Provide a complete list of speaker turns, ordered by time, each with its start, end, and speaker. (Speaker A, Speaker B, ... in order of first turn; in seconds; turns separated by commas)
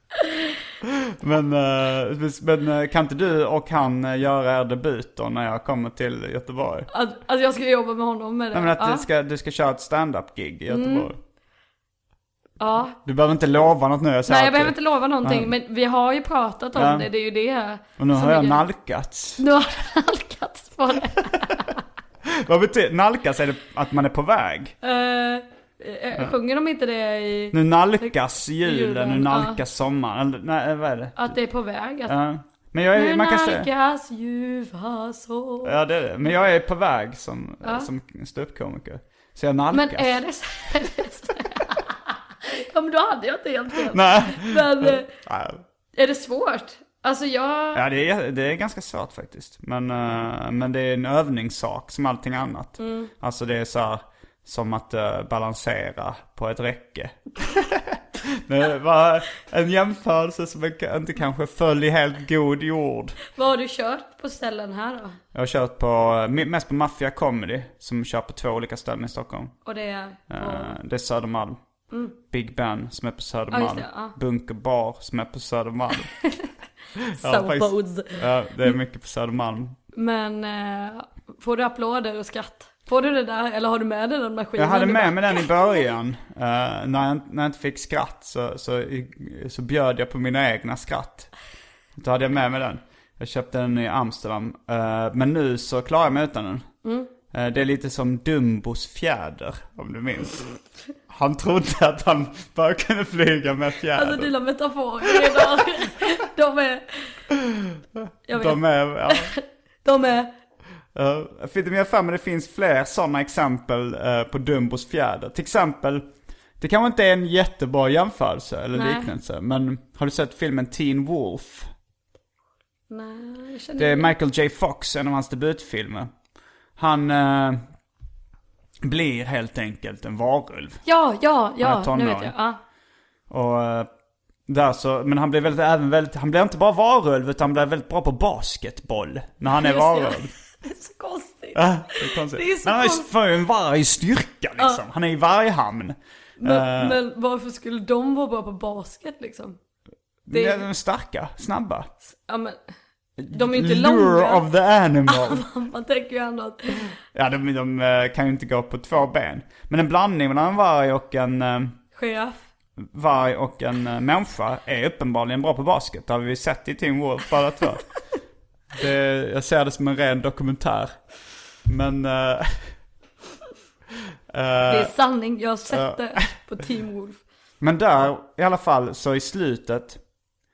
Speaker A: 1.1-6.9, Speaker B: 6.9-9.1, Speaker A: 8.5-11.2, Speaker B: 10.7-11.1, Speaker B: 12.6-13.0, Speaker A: 13.0-15.5, Speaker B: 14.3-18.6, Speaker A: 16.7-17.1, Speaker A: 18.0-19.4, Speaker B: 19.4-21.8, Speaker A: 22.2-24.7, Speaker B: 24.8-28.1, Speaker A: 27.5-31.4, Speaker B: 28.6-29.6, Speaker B: 31.2-32.1, Speaker A: 32.1-33.7, Speaker B: 33.0-35.8, Speaker A: 35.6-40.2, Speaker B: 39.7-45.1, Speaker A: 43.9-45.6, Speaker B: 46.0-47.8, Speaker A: 47.7-63.2, Speaker B: 52.8-53.1, Speaker B: 63.3-65.2, Speaker A: 65.3-69.6, Speaker B: 69.6-70.8, Speaker A: 70.3-71.6, Speaker B: 71.9-72.2, Speaker A: 72.3-76.1, Speaker B: 73.5-74.1, Speaker B: 76.2-76.5, Speaker A: 77.1-79.8, Speaker B: 77.1-78.7, Speaker B: 79.9-85.7, Speaker A: 84.5-91.3, Speaker A: 92.0-96.7, Speaker B: 96.8-97.1, Speaker A: 97.3-100.5, Speaker A: 101.1-104.3, Speaker B: 104.0-107.2, Speaker A: 105.0-105.7, Speaker A: 107.4-109.3, Speaker B: 108.3-110.3, Speaker A: 111.0-121.7, Speaker B: 118.7-119.1, Speaker B: 122.9-124.1, Speaker A: 123.8-126.1, Speaker A: 126.8-127.6, Speaker A: 128.8-130.8, Speaker B: 130.8-132.6, Speaker A: 131.6-132.3, Speaker A: 133.3-133.9, Speaker A: 134.5-140.3, Speaker B: 139.5-143.1, Speaker A: 141.6-147.0, Speaker B: 144.6-144.8, Speaker B: 146.4-149.6, Speaker A: 150.3-151.9, Speaker B: 150.3-150.6, Speaker B: 152.1-152.6, Speaker A: 153.2-155.4, Speaker B: 153.3-154.4, Speaker B: 155.1-156.9, Speaker A: 157.1-161.8, Speaker B: 161.9-162.4, Speaker A: 162.8-167.8, Speaker A: 168.7-171.0, Speaker A: 171.6-172.7, Speaker A: 174.3-174.9, Speaker B: 174.7-177.2, Speaker A: 175.7-176.3, Speaker A: 177.6-180.0